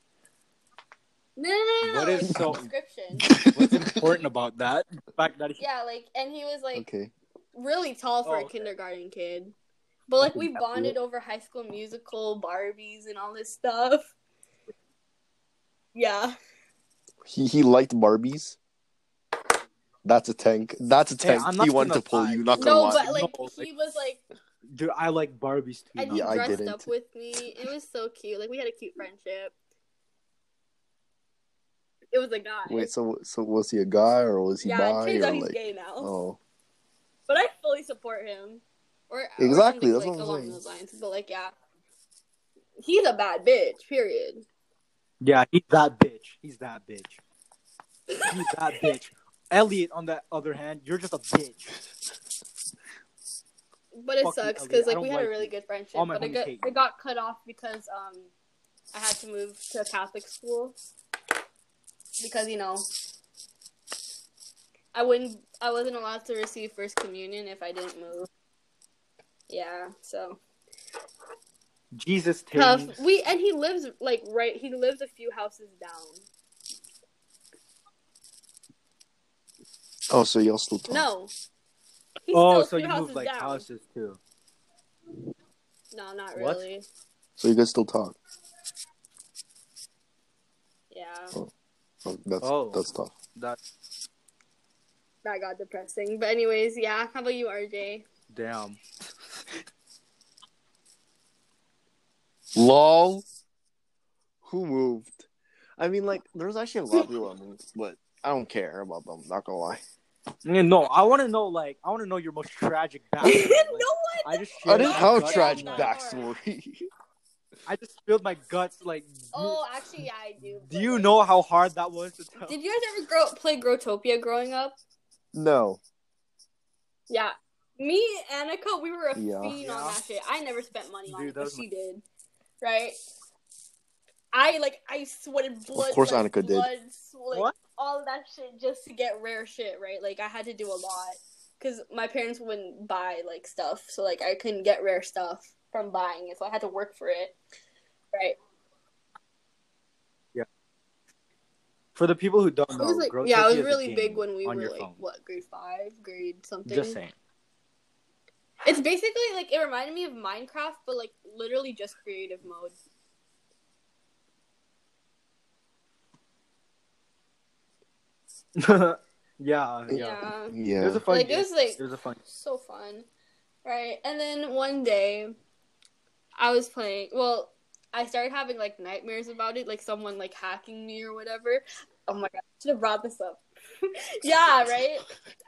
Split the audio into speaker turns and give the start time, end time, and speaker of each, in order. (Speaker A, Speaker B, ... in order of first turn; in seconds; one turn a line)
Speaker A: 1.4-3.3
Speaker B: 1.8-2.6
Speaker C: 3.2-4.0
Speaker B: 3.5-5.6
Speaker A: 5.6-6.9
Speaker C: 6.7-7.1
Speaker A: 7.5-9.5
Speaker B: 8.2-8.7
Speaker A: 10.1-14.1
Speaker C: 10.2-11.0
Speaker A: 15.9-16.4
Speaker C: 17.2-18.6
Speaker C: 20.0-23.0
Speaker B: 21.2-23.7
Speaker A: 22.6-24.2
Speaker B: 24.7-26.6
Speaker A: 26.0-29.5
Speaker C: 26.1-26.9
Speaker A: 32.1-32.9
Speaker C: 32.7-36.4
Speaker A: 34.6-36.1
Speaker A: 37.3-41.5
Speaker C: 39.4-40.6
Speaker A: 42.8-44.5
Speaker B: 45.2-47.2
Speaker B: 48.3-51.8
Speaker A: 53.9-58.3
Speaker B: 54.2-56.7
Speaker A: 58.9-60.8
Speaker A: 62.2-62.9
Speaker A: 64.9-68.3
Speaker A: 69.5-70.4
Speaker B: 72.0-73.0
Speaker A: 72.6-76.2
Speaker C: 80.1-81.1
Speaker A: 80.9-81.3
Speaker A: 82.2-83.7
Speaker B: 82.3-84.2
Speaker A: 85.9-86.9
Speaker B: 86.3-86.6
Speaker C: 87.4-88.2
Speaker A: 90.9-91.3
Speaker C: 92.0-93.2
Speaker B: 92.4-93.6
Speaker A: 95.2-98.1
Speaker B: 98.3-98.8
Speaker C: 102.5-103.2
Speaker C: 104.5-105.3
Speaker C: 105.8-109.8
Speaker B: 110.5-115.9
Speaker A: 113.2-116.3
Speaker C: 114.7-116.9
Speaker B: 117.7-119.6
Speaker A: 119.3-121.1
Speaker B: 120.7-122.5
Speaker A: 122.5-124.8
Speaker C: 125.3-125.8
Speaker A: 127.1-132.0
Speaker C: 129.2-129.6
Speaker B: 129.6-130.0
Speaker B: 131.1-131.7
Speaker A: 132.6-133.0
Speaker A: 134.3-147.4
Speaker C: 135.7-136.7
Speaker B: 152.0-155.0
Speaker A: 152.7-157.0
Speaker B: 156.7-157.2
Speaker A: 158.7-162.8
Speaker B: 168.6-170.2
Speaker C: 169.9-171.0
Speaker A: 169.9-170.6
Speaker B: 170.8-172.2
Speaker A: 171.1-173.1
Speaker A: 173.7-175.3
Speaker A: 176.4-185.1